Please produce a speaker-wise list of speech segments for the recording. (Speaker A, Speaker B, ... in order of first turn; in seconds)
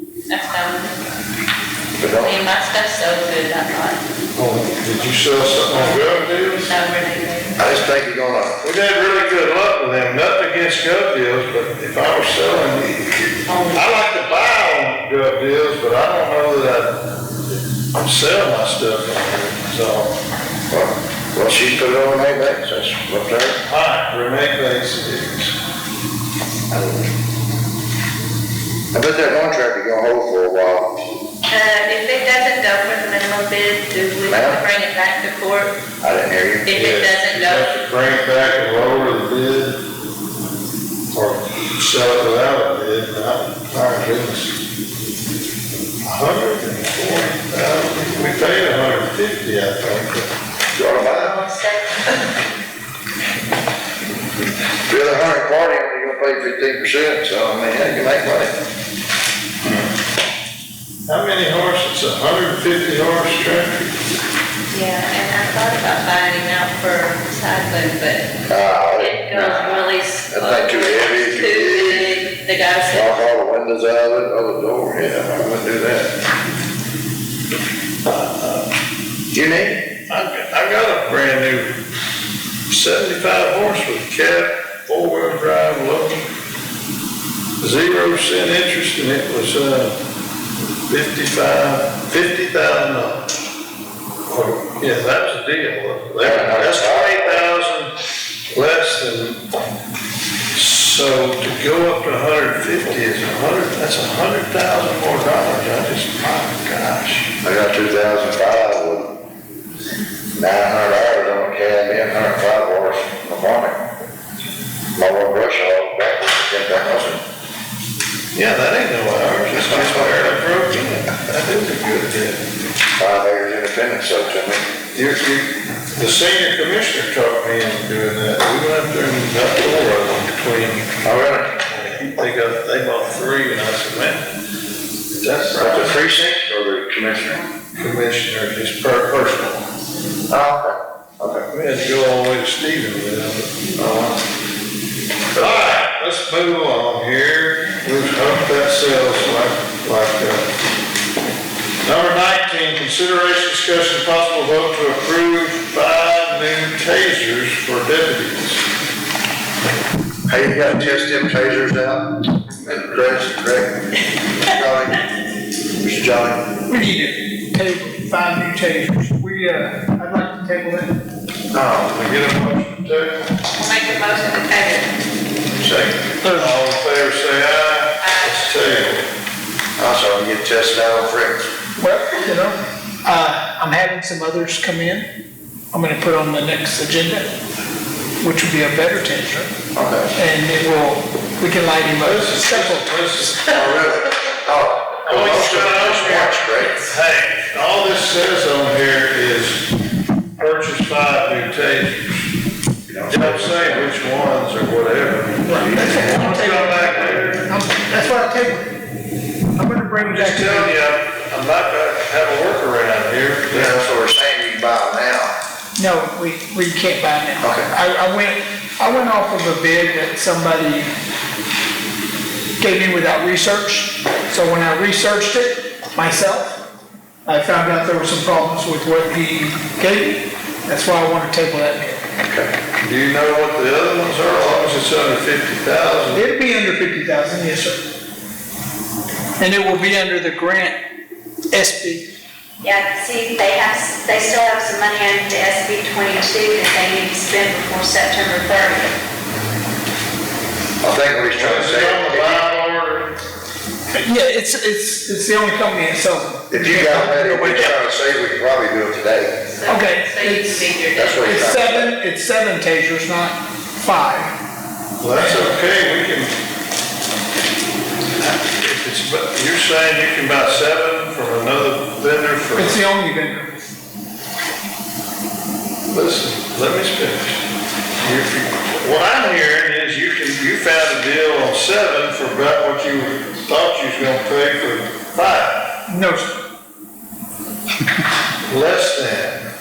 Speaker A: 0.3-0.9, 2.2-4.0, 6.6-7.6, 13.5-13.9, 31.5-35.8, 36.6-37.7, 64.7-68.3, 68.8-73.1, 173.6-174.9, 178.0-178.4, 259.5-261.4
Speaker B: 2.0-2.4, 7.6-8.6, 20.7-23.6, 28.9-30.9, 34.3-34.6, 36.0-36.7, 50.7-51.5, 54.8-58.5, 68.5-72.1, 72.9-76.1, 79.3-79.9, 96.2-97.4, 107.4-109.1, 110.3-113.8, 115.0-117.2, 119.5-120.3, 123.0-124.6, 131.0-131.5, 135.5-137.4, 140.3-141.4, 143.8-144.2, 145.3-145.7, 160.3-162.1, 162.6-163.8, 164.4-165.0, 165.8-166.5, 171.5-171.9, 178.6-178.9, 179.8-181.5, 189.7-190.1, 193.5-197.0, 202.9-203.9, 213.5-215.3, 217.4-217.7, 232.2-232.5, 250.8-252.4, 256.5-259.3, 260.9-261.9
Speaker C: 4.3-6.7, 8.6-17.1, 17.9-20.1, 23.6-25.5, 36.7-39.8, 41.1-44.5, 46.0-50.3, 61.1-63.8, 78.1-78.7, 80.1-81.7, 82.7-86.2, 87.6-90.0, 90.9-93.2, 94.3-97.9, 98.5-99.4, 100.5-107.3, 118.3-122.4, 124.9-131.0, 131.7-134.2, 135.2-135.9, 137.8-139.6, 141.5-143.7, 145.3-150.5, 151.8-158.6, 171.8-173.3, 175.5-179.1, 192.0-194.0, 195.0-199.7, 200.4-202.3, 203.1-207.5, 210.0-213.8, 232.8-236.3, 251.3-253.2, 265.0-266.4, 268.2-272.8, 275.9-277.4, 278.0-285.6, 288.5-289.5
Speaker D: 166.7-170.9, 176.2-176.6, 181.8-185.1, 185.7-187.3, 188.2-189.5, 190.1-193.0, 205.4-208.8, 209.6-210.8, 215.8-220.9, 222.6-226.6, 227.2-232.0, 236.1-237.8, 239.4-240.8, 241.5-242.1, 253.9-257.8, 259.7-260.7, 261.2-264.3, 265.1-265.4, 272.6-273.6, 285.9-286.4
Speaker E: 242.7-248.9